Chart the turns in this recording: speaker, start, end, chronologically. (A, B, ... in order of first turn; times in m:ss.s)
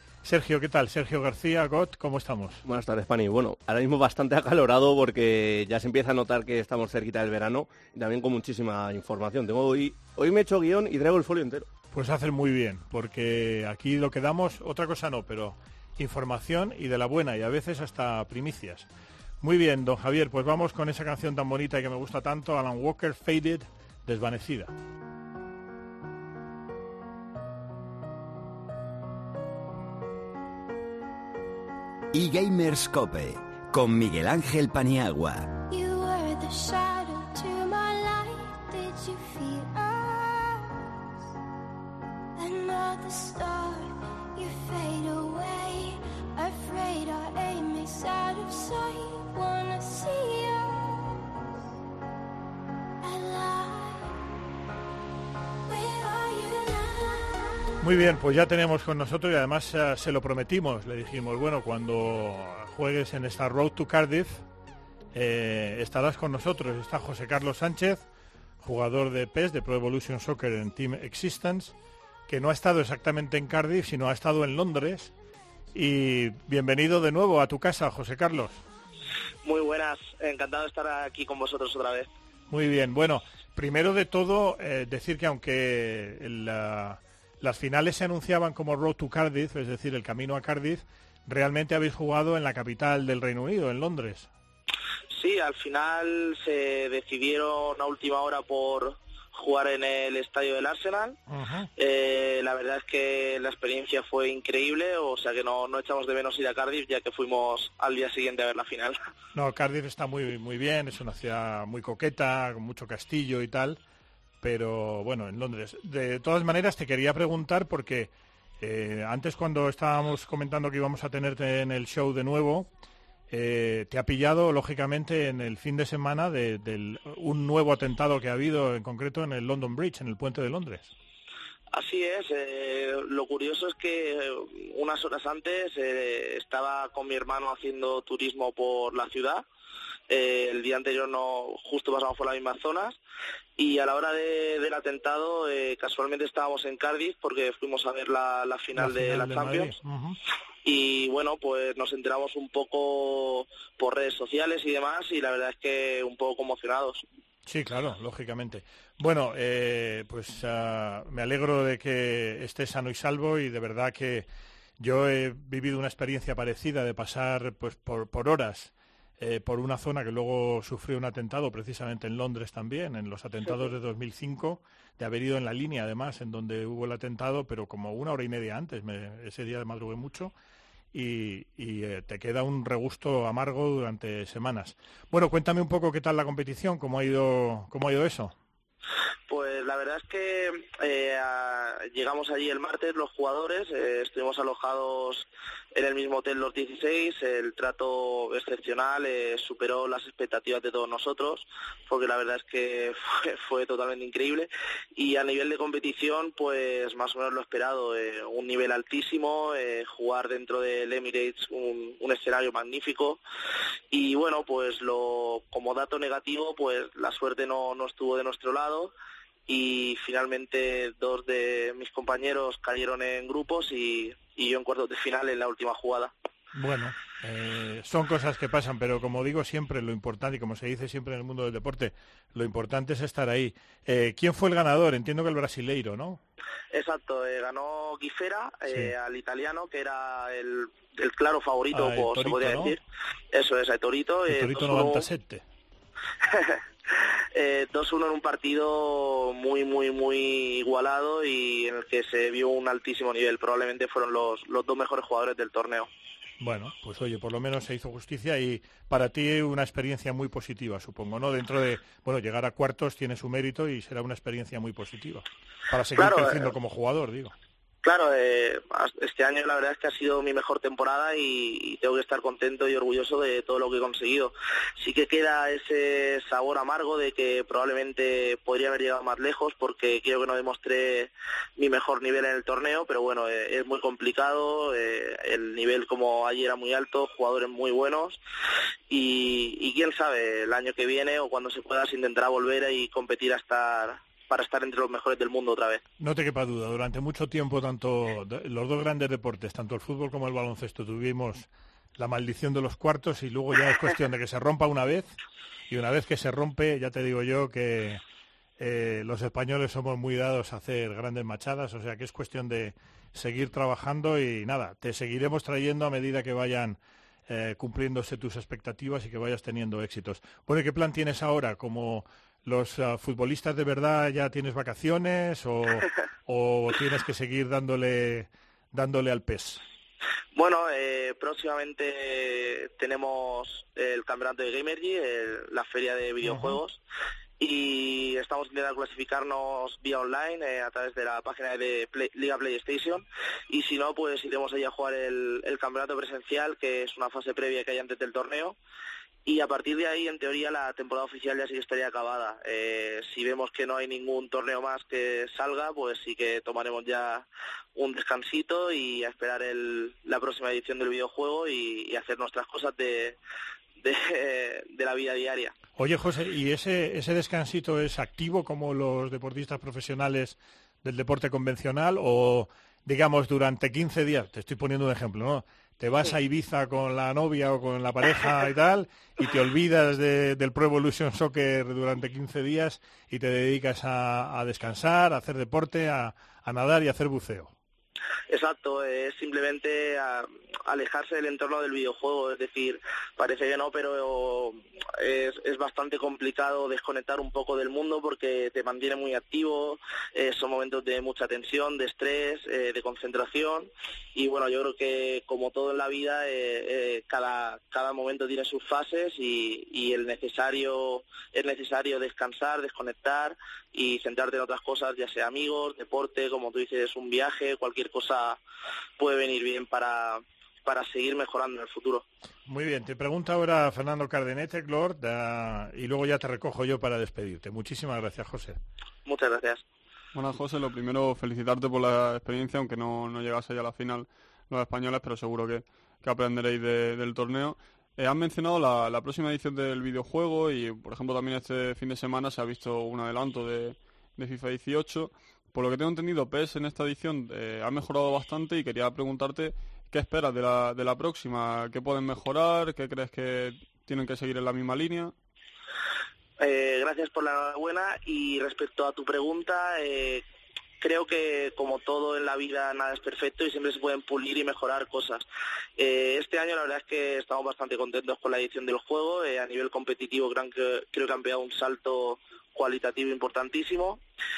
0:00.2-0:02.6 A
0:02.6-0:11.7 B
0:11.9-0:18.9 A
0:19.4-0:24.7 A
0:32.1-0:35.6 C
0:35.7-0:40.9 D
0:42.4-0:51.4 D
0:53.0-0:54.2 D
0:55.7-0:57.9 D
0:57.8-1:04.4 A
1:05.1-1:08.0 A
1:08.6-1:11.7 A
1:12.3-1:15.1 A
1:15.7-1:18.6 A
1:19.4-1:22.1 E
1:22.5-1:34.3 A
1:35.1-1:41.2 E
1:41.3-1:41.7 A
1:41.8-1:49.0 E
1:49.3-1:53.8 A
1:54.4-2:02.7 A
2:03.3-2:10.9 A
2:11.7-2:19.4 E
2:20.1-2:23.0 E
2:23.6-2:29.7 E
2:28.8-2:30.2 A
2:30.6-2:37.0 E
2:37.5-2:44.3 A
2:44.8-3:00.3 A
3:00.9-3:08.4 A
3:09.3-3:33.2 E
3:33.9-3:38.9 E
3:39.5-3:46.1 E
3:46.5-3:56.2 A
3:56.7-4:02.8 E
3:58.7-3:58.9 A
4:01.7-4:02.8 A
4:03.3-4:05.1 E
4:04.3-4:05.4 A
4:06.2-4:06.6 E
4:07.3-4:15.9 E
4:16.4-4:27.3 A
4:26.0-4:26.5 E
4:27.8-4:48.2 E
4:48.9-4:55.8 E
4:56.0-5:05.1 A
5:05.7-5:08.0 A
5:08.6-5:29.6 A
5:30.4-5:36.8 E
5:36.2-5:36.6 A
5:37.4-5:48.6 E
5:49.2-6:03.2 E
6:03.8-6:05.5 E
6:05.8-6:27.5 A
6:28.3-6:58.4 E
6:59.0-7:02.0 E
7:02.5-7:08.6 A
7:09.1-7:09.6 E
7:10.1-7:35.1 F
7:36.4-7:40.2 E
7:40.8-7:45.2 E
7:45.8-7:54.0 E